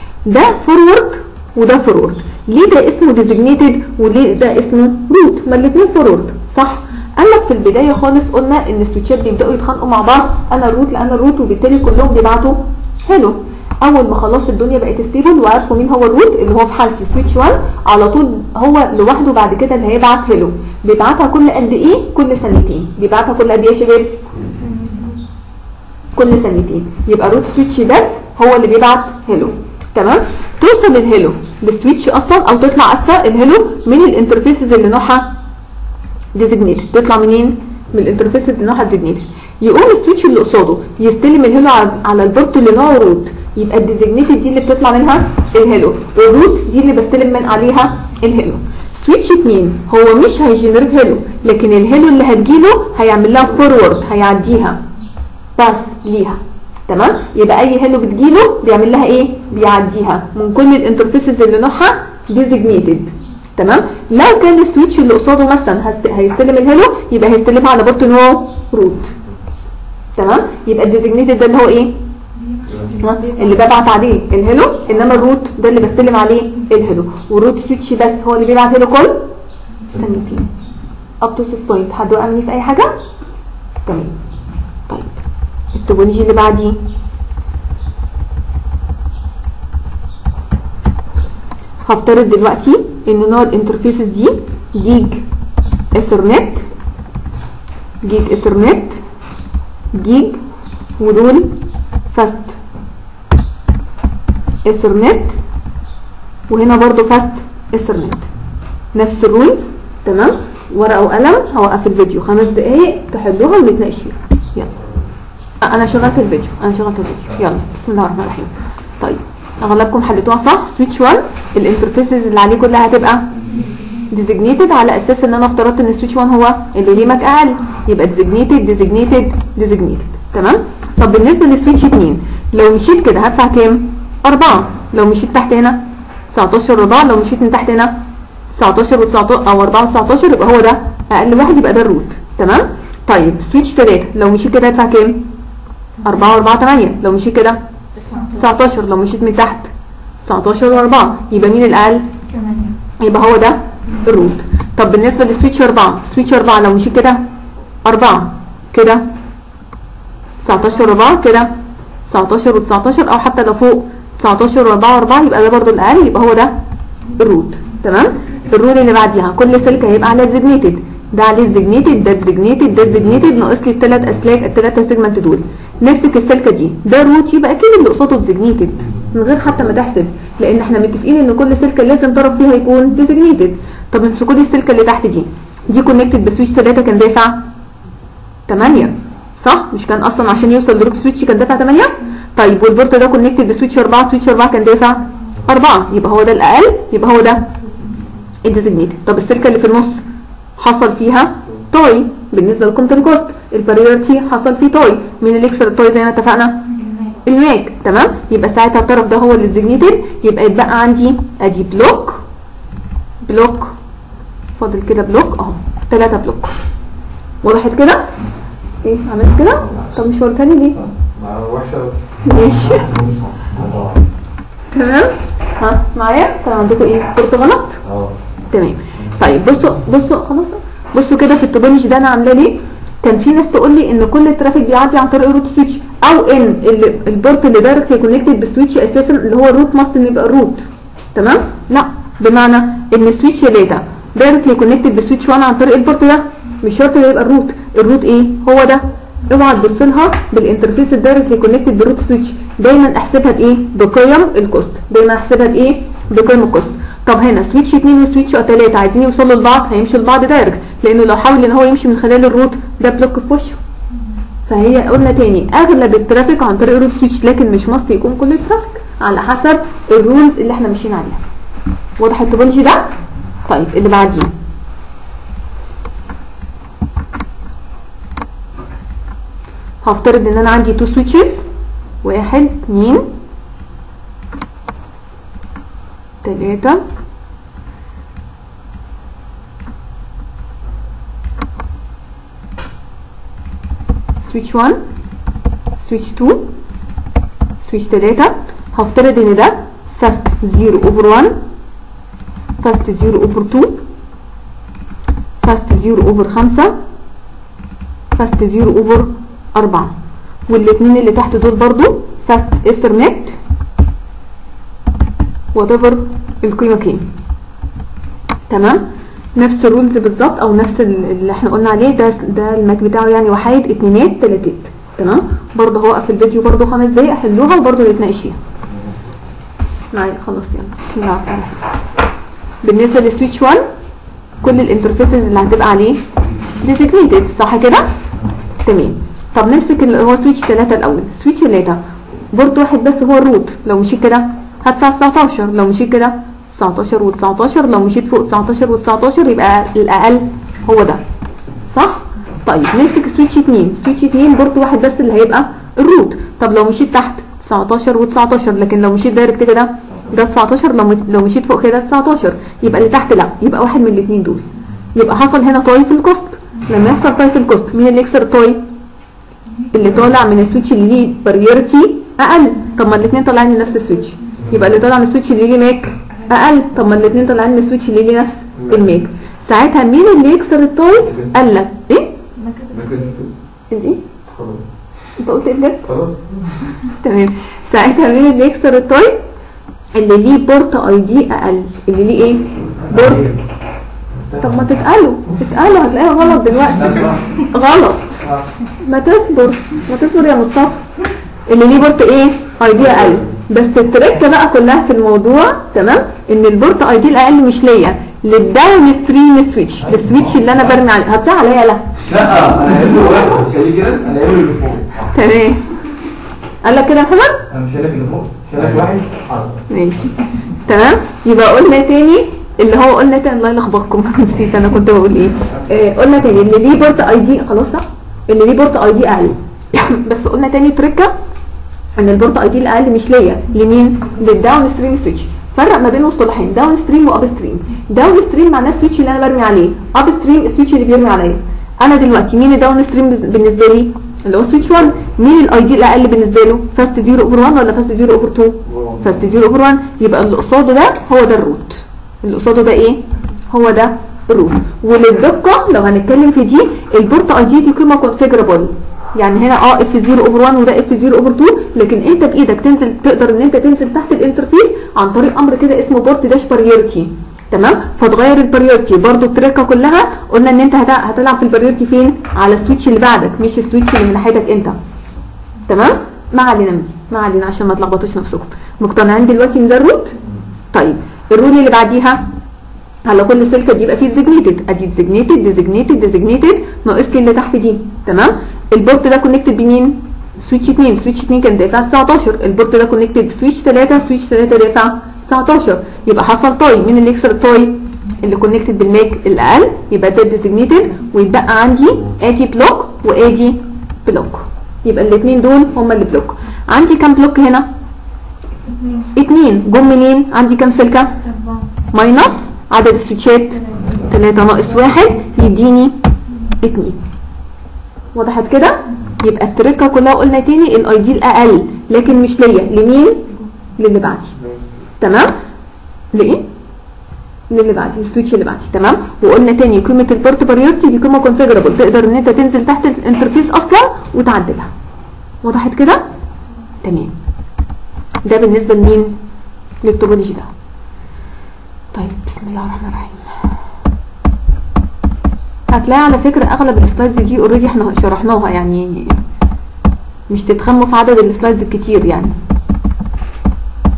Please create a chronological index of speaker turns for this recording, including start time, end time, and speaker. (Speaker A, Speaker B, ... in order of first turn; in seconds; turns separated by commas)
Speaker A: 0.3-24.2, Speaker B: 24.5-25.2, Speaker A: 26.2-35.3, Speaker A: 36.4-54.8, Speaker A: 55.6-69.1, Speaker A: 70.2-72.0, Speaker B: 72.5-73.6, Speaker A: 73.0-79.3, Speaker A: 79.9-80.5, Speaker A: 81.2-83.0, Speaker A: 83.8-84.2, Speaker A: 85.7-86.8, Speaker A: 91.8-95.2, Speaker A: 95.9-96.7, Speaker A: 98.0-99.0, Speaker A: 99.9-100.4, Speaker A: 101.0-101.6, Speaker A: 102.1-102.6, Speaker A: 104.7-105.4, Speaker A: 106.5-108.3, Speaker A: 108.9-114.7, Speaker A: 115.6-123.4, Speaker A: 124.1-138.0, Speaker A: 138.6-145.3, Speaker A: 146.0-147.6, Speaker B: 148.0-148.6, Speaker A: 148.4-149.7, Speaker A: 150.3-152.1, Speaker B: 152.3-152.8, Speaker A: 153.0-157.2, Speaker A: 157.8-159.1, Speaker A: 160.4-161.5, Speaker A: 162.1-166.6, Speaker A: 167.2-187.4, Speaker A: 188.5-197.5, Speaker A: 198.4-200.0, Speaker A: 200.6-206.7, Speaker B: 206.7-207.1, Speaker A: 207.2-212.2, Speaker A: 213.2-213.7, Speaker A: 214.6-216.6, Speaker A: 217.4-218.1, Speaker A: 218.8-220.8, Speaker C: 221.2-224.1, Speaker A: 222.2-222.9, Speaker A: 224.7-227.8, Speaker C: 227.8-228.1, Speaker A: 228.5-240.6, Speaker A: 241.2-263.6, Speaker A: 264.5-271.2, Speaker A: 272.0-272.9, Speaker A: 273.5-274.3, Speaker A: 279.8-281.4, Speaker A: 282.0-283.1, Speaker A: 286.2-286.8, Speaker A: 294.2-294.8, Speaker A: 295.8-296.5, Speaker A: 297.6-301.4, Speaker A: 302.6-303.8, Speaker A: 305.4-306.8, Speaker A: 308.2-309.9, Speaker A: 310.5-313.4, Speaker A: 315.6-317.1, Speaker A: 318.5-328.4, Speaker A: 329.9-331.6, Speaker A: 332.6-333.6, Speaker A: 334.4-336.0, Speaker A: 336.6-337.9, Speaker A: 338.6-341.8, Speaker A: 342.3-351.0, Speaker A: 351.7-368.6, Speaker A: 369.7-382.1, Speaker B: 382.4-383.0, Speaker D: 383.0-383.3, Speaker A: 383.7-384.0, Speaker A: 385.2-385.9, Speaker A: 387.0-389.2, Speaker A: 389.9-393.4, Speaker D: 392.8-393.4, Speaker A: 394.4-398.2, Speaker D: 396.8-397.2, Speaker A: 398.8-400.8, Speaker A: 401.5-411.8, Speaker D: 412.1-415.1, Speaker A: 415.1-415.7, Speaker A: 416.6-417.4, Speaker D: 417.5-419.5, Speaker A: 419.7-431.1, Speaker A: 432.0-474.8, Speaker A: 475.7-480.2, Speaker A: 480.7-482.3, Speaker A: 483.1-507.7, Speaker B: 508.6-509.1, Speaker A: 509.1-511.2, Speaker B: 511.2-511.7, Speaker A: 511.9-516.0, Speaker B: 513.6-514.0, Speaker A: 516.6-517.0, Speaker A: 518.1-524.3, Speaker A: 525.0-525.4, Speaker A: 526.1-526.5, Speaker A: 527.5-534.7, Speaker A: 535.4-536.1, Speaker A: 536.8-537.1, Speaker A: 538.2-539.2, Speaker A: 539.8-540.5, Speaker A: 541.9-543.3, Speaker A: 545.7-549.2, Speaker A: 550.3-552.4